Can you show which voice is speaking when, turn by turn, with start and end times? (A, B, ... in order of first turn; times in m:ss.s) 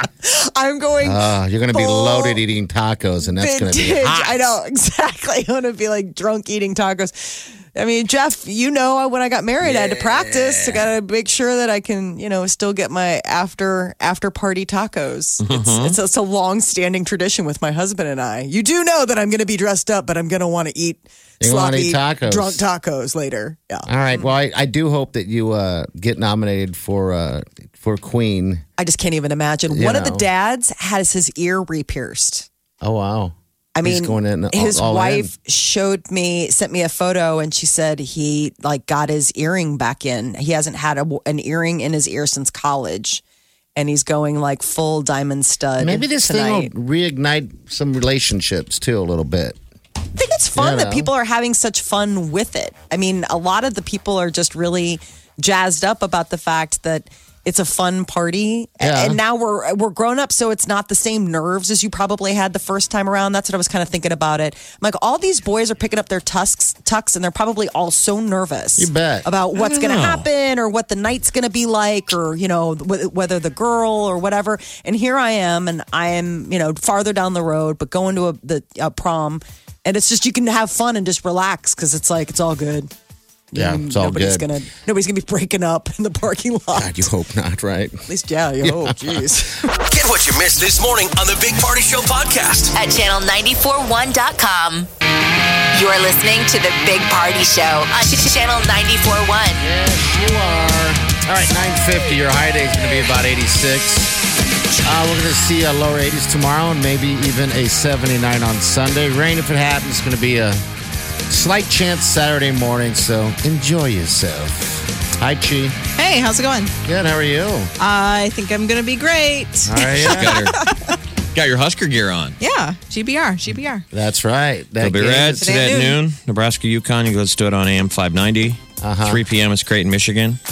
0:00.2-0:02.4 A
0:01.0-0:04.4 B
0:03.2-0:24.3 A
0:09.6-0:10.8 B
0:15.4-0:16.0 C
0:21.4-0:22.6 B
0:23.8-0:28.6 B
0:28.8-0:32.5 A
0:29.7-0:30.2 B
0:32.8-0:35.3 B
0:33.7-0:43.2 A
0:43.8-0:46.7 A
0:45.8-0:49.6 B
0:50.1-1:22.9 A
0:50.6-0:51.1 B
0:58.8-0:59.2 B
1:08.8-1:09.3 B
1:09.6-1:10.2 C
1:23.5-1:27.1 A
1:23.5-1:24.5 B
1:26.7-1:28.0 B
1:28.1-1:29.7 A
1:28.6-1:29.2 B
1:29.8-1:32.8 D
1:32.8-1:34.9 E
1:35.7-1:39.6 E
1:39.6-1:44.1 B
1:44.8-1:50.6 B
1:51.3-1:55.8 B
1:56.0-1:56.7 F
1:56.8-1:57.7 B
1:57.8-2:00.9 F
1:59.7-2:00.4 B
1:59.9-2:00.6 C
2:01.3-2:02.4 C
2:02.4-2:03.8 F
2:03.9-2:05.4 B
2:04.8-2:10.4 C
2:05.4-2:06.0 F
2:08.8-2:09.2 B